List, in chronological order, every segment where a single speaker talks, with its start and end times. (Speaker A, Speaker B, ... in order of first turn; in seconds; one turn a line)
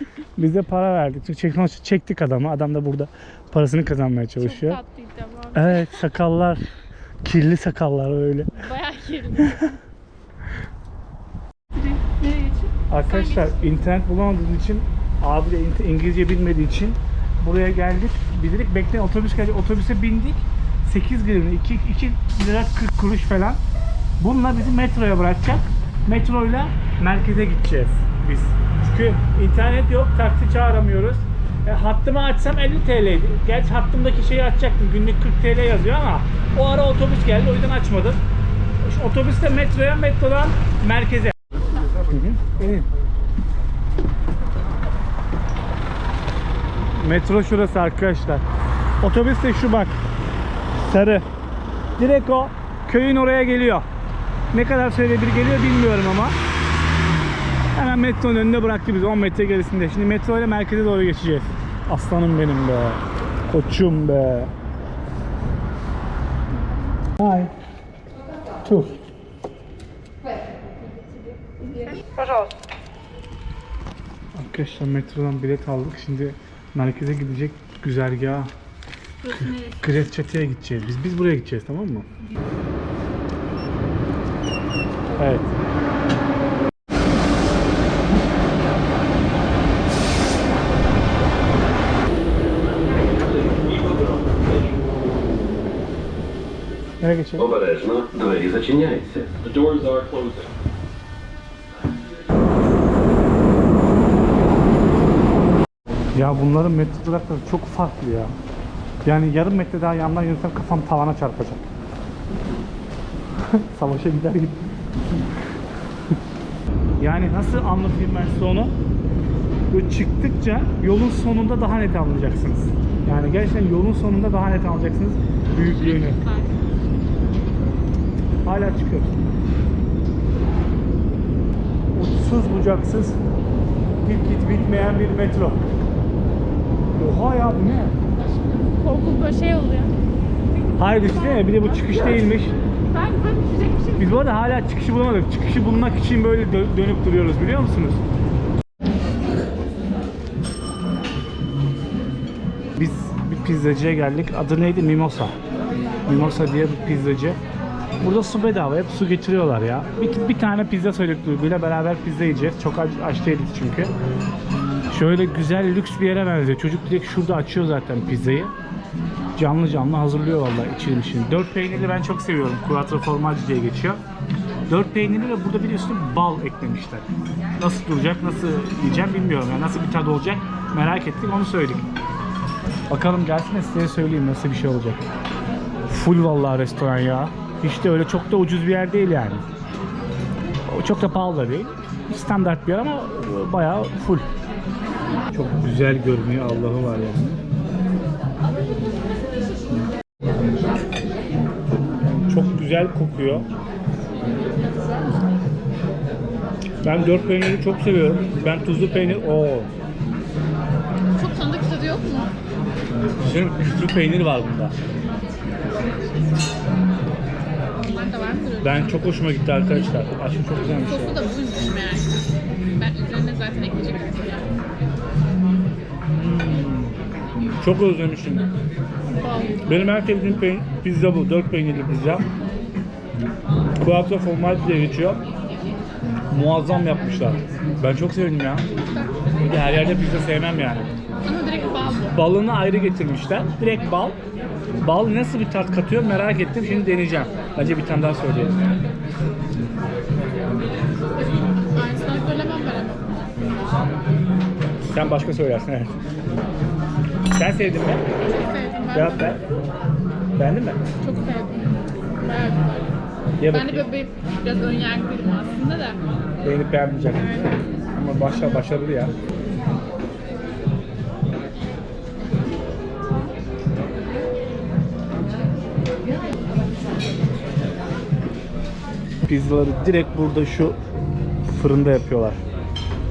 Speaker A: 0.4-4.8
Speaker B: 4.4-6.1
Speaker A: 5.5-6.6
Speaker A: 7.2-8.6
Speaker B: 8.5-9.8
Speaker B: 11.7-13.7
Speaker A: 12.9-23.6
Speaker A: 24.2-38.2
Speaker A: 38.8-41.4
Speaker A: 42.0-42.9
Speaker A: 47.0-48.5
Speaker A: 49.0-50.0
Speaker A: 50.8-51.2
Speaker A: 52.0-53.9
Speaker A: 54.5-56.4
Speaker A: 57.8-64.5
Speaker A: 67.2-67.5
Speaker A: 68.6-69.0
Speaker B: 71.4-72.3
Speaker A: 74.3-78.5
Speaker B: 79.2-80.1
Speaker A: 79.3-82.1
Speaker B: 85.1-85.5
Speaker A: 85.2-85.5
Speaker C: 92.9-94.9
Speaker A: 97.0-97.5
Speaker D: 97.4-99.3
Speaker C: 99.3-100.5
Speaker A: 106.1-108.3
Speaker A: 109.0-111.6
Speaker A: 113.5-114.6
Speaker A: 117.0-118.8
Speaker A: 119.7-126.2
Speaker B: 125.6-126.7
Speaker A: 128.4-129.2
Speaker A: 131.9-133.2
Speaker A: 134.0-135.7
Speaker A: 137.0-138.0
Speaker B: 138.4-139.9
Speaker A: 140.8-142.6
Speaker B: 140.8-142.2
Speaker B: 142.9-144.4
Speaker A: 144.0-148.0
Speaker A: 152.8-155.4
Speaker A: 156.1-157.4
Speaker A: 158.0-163.9
Speaker A: 164.9-168.5
Speaker A: 169.4-174.0
Speaker A: 174.7-177.1
Speaker A: 177.6-181.9
Speaker A: 182.9-185.0
Speaker A: 185.9-189.4
Speaker A: 190.7-194.3
Speaker A: 195.3-197.4
Speaker A: 202.1-203.5
Speaker B: 204.2-204.7
Speaker A: 206.8-209.7
Speaker B: 211.2-212.3
Speaker A: 213.2-214.8
Speaker B: 217.8-219.0
Speaker A: 218.6-221.2
Speaker B: 220.8-224.6
Speaker A: 226.1-227.0
Speaker A: 227.6-228.5
Speaker B: 229.1-229.7
Speaker A: 229.7-232.3
Speaker A: 233.8-235.2
Speaker A: 236.3-238.7
Speaker A: 239.4-240.9
Speaker B: 241.2-242.2
Speaker A: 242.1-244.2
Speaker A: 244.8-248.8
Speaker B: 251.2-253.2
Speaker A: 254.9-256.0
Speaker A: 257.3-258.1
Speaker B: 258.2-259.4
Speaker A: 258.9-259.4
Speaker A: 260.4-260.8
Speaker B: 261.0-263.0
Speaker A: 263.4-263.9
Speaker B: 263.5-266.0
Speaker A: 266.4-269.2
Speaker A: 279.3-280.8
Speaker A: 281.4-282.4